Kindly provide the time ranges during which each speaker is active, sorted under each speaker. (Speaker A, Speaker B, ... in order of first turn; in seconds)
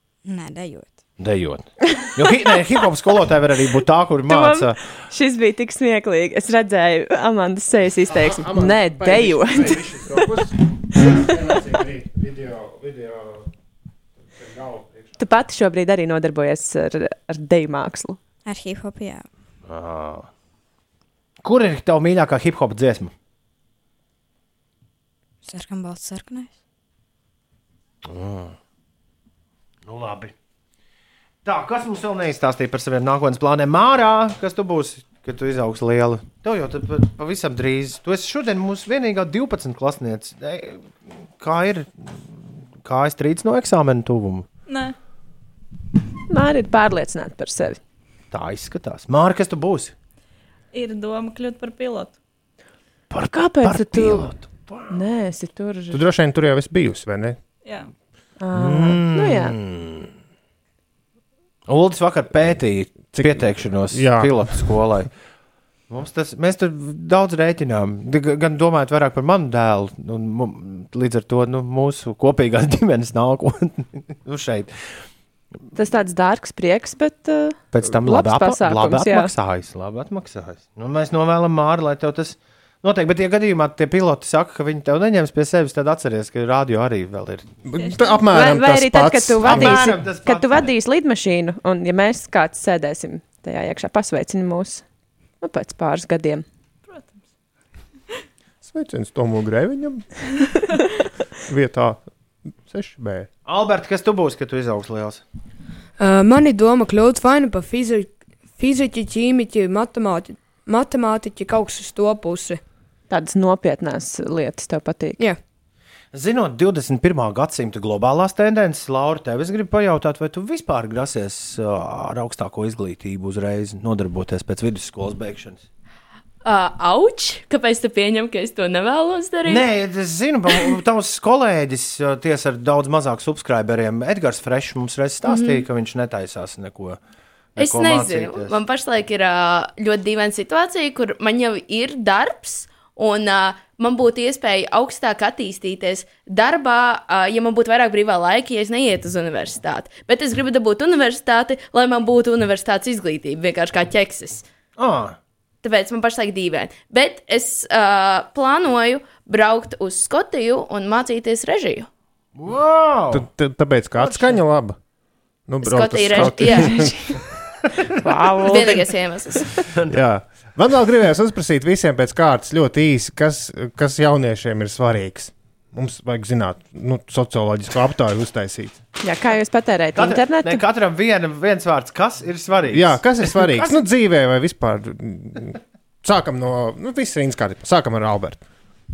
Speaker A: 0.3-0.9, 18.5-19.2, 25.5-26.4
Speaker B: 1.2-4.8, 19.7-20.3, 21.4-23.1, 28.1-28.6, 29.9-30.3, 31.4-44.5, 48.3-49.9, 53.1-55.0, 58.5-60.1, 61.7-65.1, 65.9-74.7, 77.7-87.5, 89.4-90.7, 103.5-105.2, 116.1-125.7, 129.5-137.0, 137.6-138.6, 154.8-155.2, 162.4-163.3, 163.9-164.4, 168.3-168.6, 169.6-170.0, 179.9-183.8
Speaker C: 4.3-9.9, 15.2-18.2, 46.3-47.8, 53.3-54.4, 54.9-56.0, 58.4-59.6, 75.7-79.3, 88.3-94.8, 95.4-96.4, 113.1-115.2, 167.9-168.9, 179.0-180.6
Speaker D: 8.2-13.5, 14.3-15.2, 55.9-57.4, 63.1-64.9, 87.7-90.0, 98.6-100.3, 101.5-102.1, 102.6-103.3, 163.1-164.8, 165.5-167.0, 169.9-178.8, 182.7-188.4
Speaker E: 44.7-45.0, 50.7-52.1, 87.8-88.2
Speaker F: 106.0-112.6
Speaker G: 126.4-129.7, 135.2-135.7, 137.6-154.4, 155.6-161.9, 165.6-167.2, 168.5-169.4